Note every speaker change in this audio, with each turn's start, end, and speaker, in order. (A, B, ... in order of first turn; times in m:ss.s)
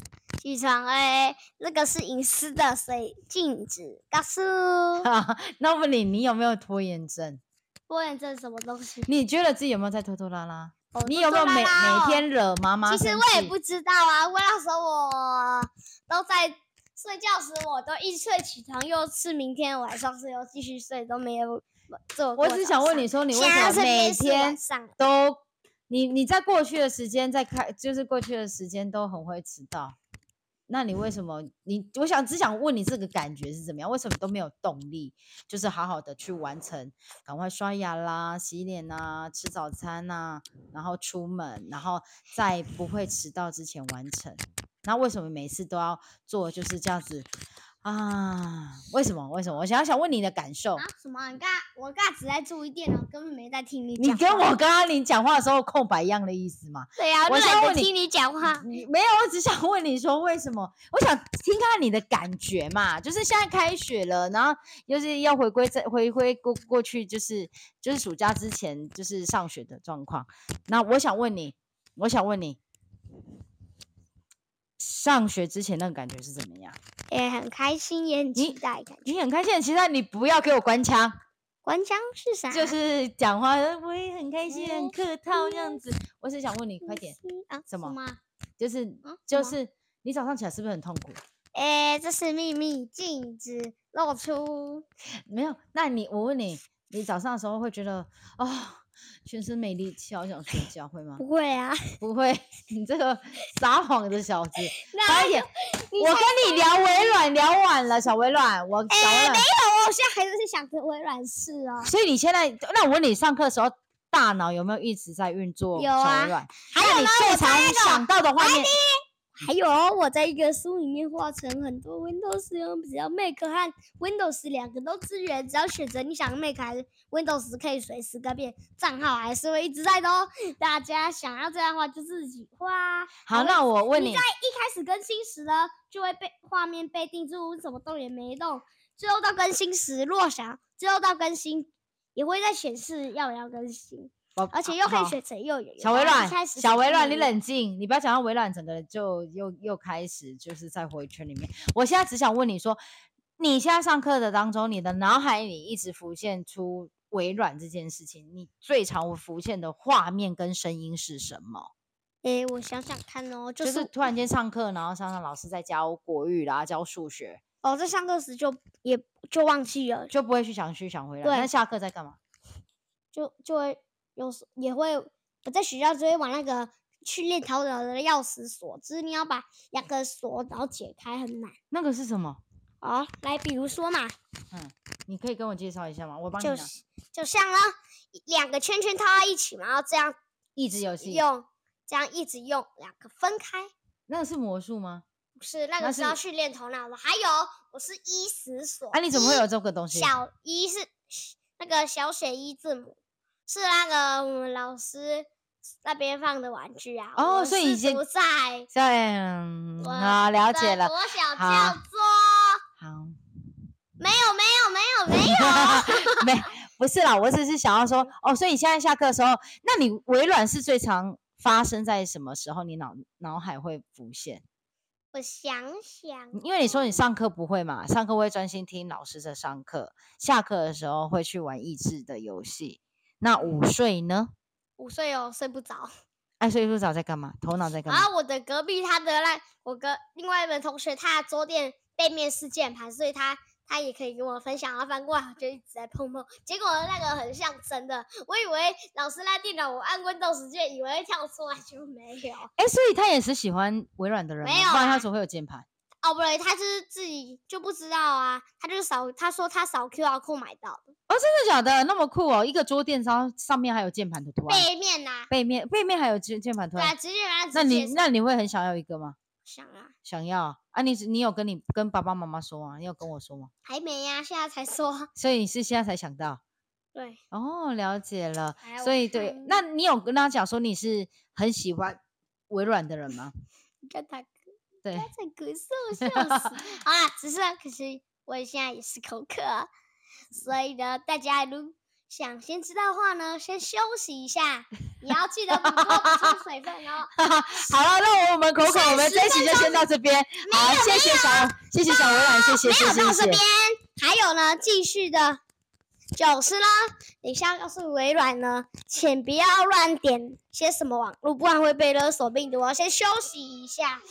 0:00.4-0:05.1 A
0:05.0-0:07.4 B
0:07.9-0:09.1 A
0:09.0-0:13.5 B
0:10.9-0:12.2 A
0:12.9-0:24.9 A
0:22.4-0:30.0 B
0:30.7-0:47.3 B
0:47.8-0:50.8 B
0:50.8-0:54.5 A
0:54.0-0:57.9 B
0:57.0-0:58.7 A
0:58.4-1:12.6 B
1:14.8-1:16.8 B
1:17.1-1:19.1 A
1:18.4-1:21.2 B
1:21.6-1:22.7 A
1:22.5-1:27.2 B
1:24.5-1:25.8 A
1:26.8-1:28.2 A
1:27.7-1:28.0 B
1:28.6-1:31.2 B
1:29.0-1:29.6 A
1:31.5-1:34.8 A
1:35.3-1:41.2 B
1:41.2-1:41.9 A
1:42.0-1:49.4 B
1:44.7-1:47.2 A
1:48.9-1:51.9 A
1:51.8-1:58.7 B
1:55.7-2:27.3 A
2:13.3-2:14.2 B
2:24.4-2:25.2 B
2:25.8-2:32.8 B
2:33.4-2:41.7 B
2:42.2-2:44.0 A
2:43.6-2:47.4 B
2:47.6-2:50.1 A
2:50.1-2:52.2 B
2:51.2-2:51.5 A
2:53.1-3:01.5 A
3:01.7-3:02.4 B
3:02.8-3:04.1 A
3:04.5-3:06.7 B
3:06.4-3:10.2 A
3:10.6-3:11.2 B
3:11.0-3:13.7 A
3:14.1-3:15.0 B
3:15.4-3:25.3 A
3:15.8-3:16.2 B
3:18.9-3:20.1 B
3:25.8-3:28.7 A
3:27.2-3:28.0 B
3:28.7-3:31.8 B
3:29.8-3:32.6 A
3:32.8-3:33.2 B
3:34.0-3:36.2 A
3:35.1-3:44.4 B
3:45.1-3:47.0 A
3:46.3-3:54.3 B
3:54.8-3:55.9 A
3:56.4-3:58.1 B
3:57.9-4:12.5 A
4:12.6-4:15.6 B
4:14.4-4:15.0 A
4:16.0-4:20.9 A
4:21.1-4:24.7 B
4:24.5-4:25.3 A
4:25.3-4:26.9 B
4:26.8-4:28.1 A
4:27.5-4:29.2 B
4:29.4-4:29.9 A
4:30.0-4:33.5 B
4:33.6-4:35.1 A
4:35.2-4:36.4 B
4:37.3-4:42.0 B
4:38.6-4:39.6 A
4:42.5-4:43.3 B
4:43.8-4:44.3 A
4:44.9-4:49.7 A
4:46.0-4:46.6 B
4:50.3-4:57.1 A
4:55.6-4:56.4 B
4:57.1-5:03.4 B
4:58.6-4:59.9 A
5:00.4-5:05.4 A
5:06.1-5:14.0 A